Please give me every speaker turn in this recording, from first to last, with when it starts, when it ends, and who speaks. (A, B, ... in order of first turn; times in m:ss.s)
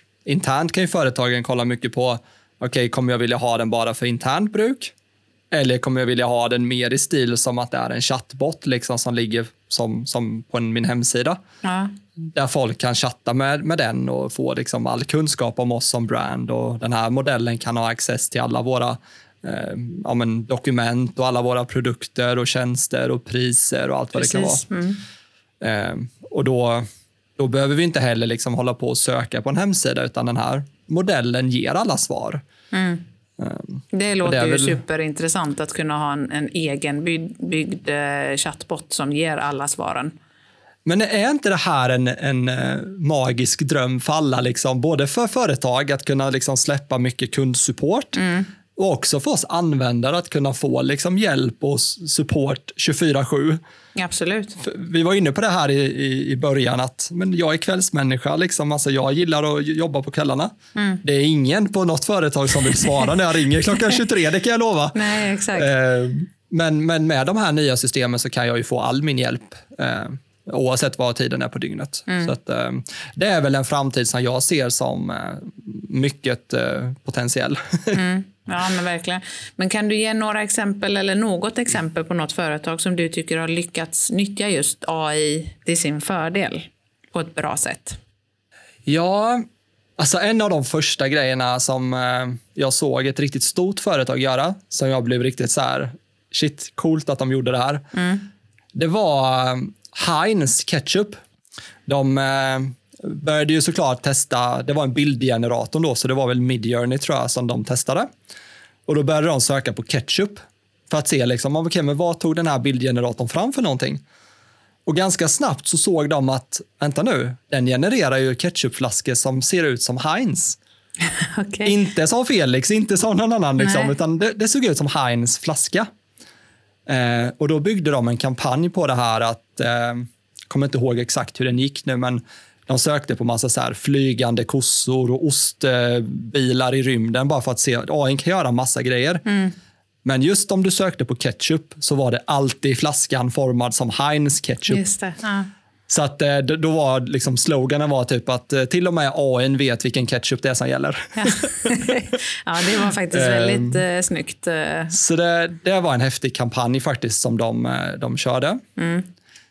0:00.3-0:04.9 A
0:05.5-0:11.4 A
0:11.6-0:11.9 B
0:12.3-0:24.6 A
0:24.2-0:25.0 B
0:25.6-0:26.9 A
0:27.4-0:32.4 A
0:32.7-0:33.0 B
0:33.4-0:34.8 A
0:33.9-0:40.1 B
0:40.8-0:48.2 A
0:48.2-0:48.5 B
0:48.8-0:53.6 A
0:54.0-0:54.6 B
0:54.6-1:18.0 A
1:00.8-1:01.0 B
1:05.0-1:05.7 B
1:12.1-1:12.3 B
1:17.9-1:28.0 B
1:28.9-1:29.5 A
1:30.0-1:37.9 A
1:37.9-1:38.2 B
1:38.8-1:41.2 A
1:41.9-1:48.1 A
1:48.9-1:54.0 A
1:54.9-2:00.6 A
2:01.1-2:01.8 B
2:01.6-2:05.9 A
2:03.6-2:03.9 B
2:06.9-2:19.2 A
2:19.3-2:19.5 B
2:20.0-2:24.8 A
2:24.7-2:25.5 B
2:25.9-2:31.7 A
2:31.2-2:35.0 B
2:33.1-2:33.8 A
2:34.9-2:38.6 A
2:38.8-2:39.1 B